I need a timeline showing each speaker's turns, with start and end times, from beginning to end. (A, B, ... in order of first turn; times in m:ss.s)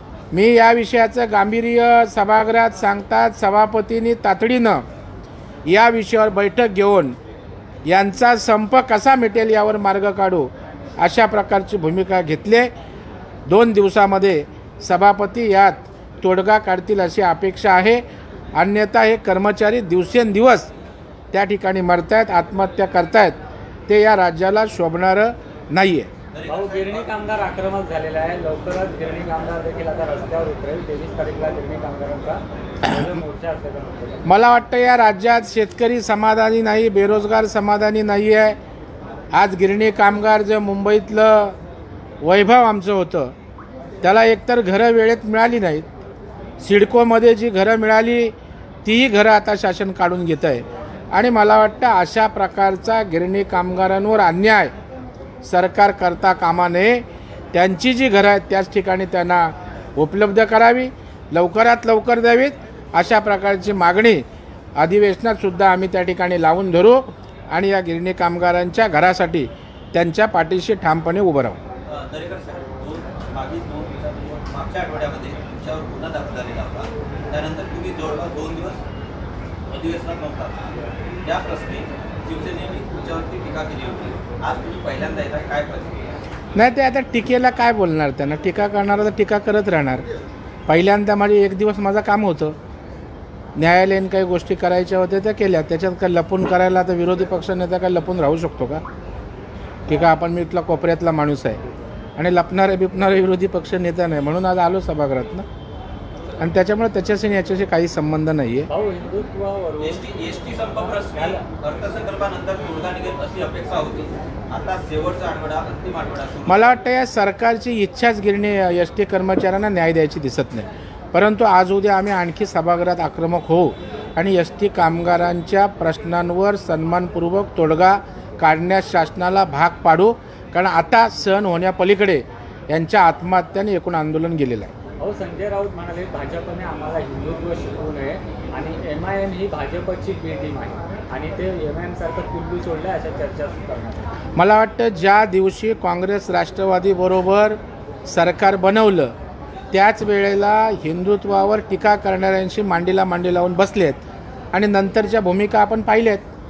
0:00.3-0:04.8 A
0:05.7-0:07.2 A
0:07.9-0:12.7 A
0:13.5-0:18.0 A
0:18.6-0:20.7 A
0:21.3-0:23.4 A
0:23.9-0:26.1 A
0:26.3-0:27.3 B
0:26.4-0:34.2 C
0:34.2-0:38.6 A
0:39.3-0:41.6 A
0:42.2-0:43.3 A
0:44.0-0:45.9 A
0:46.6-0:48.3 A
0:48.8-0:54.7 A
0:55.4-1:04.2 A
1:04.8-1:11.6 A
1:11.9-1:18.8 B
1:19.7-1:20.7 B
1:21.2-1:26.0 B
1:26.6-1:30.0 A
1:30.7-1:32.6 A
1:33.6-1:38.8 A
1:39.9-1:41.6 A
1:42.2-1:45.4 A
1:46.4-1:48.7 A
1:48.7-1:51.4 C
1:49.8-1:56.7 B
1:56.4-2:14.7 A
2:15.0-2:24.1 C
2:24.4-2:29.1 A
2:29.7-2:34.0 A
2:34.5-2:36.2 A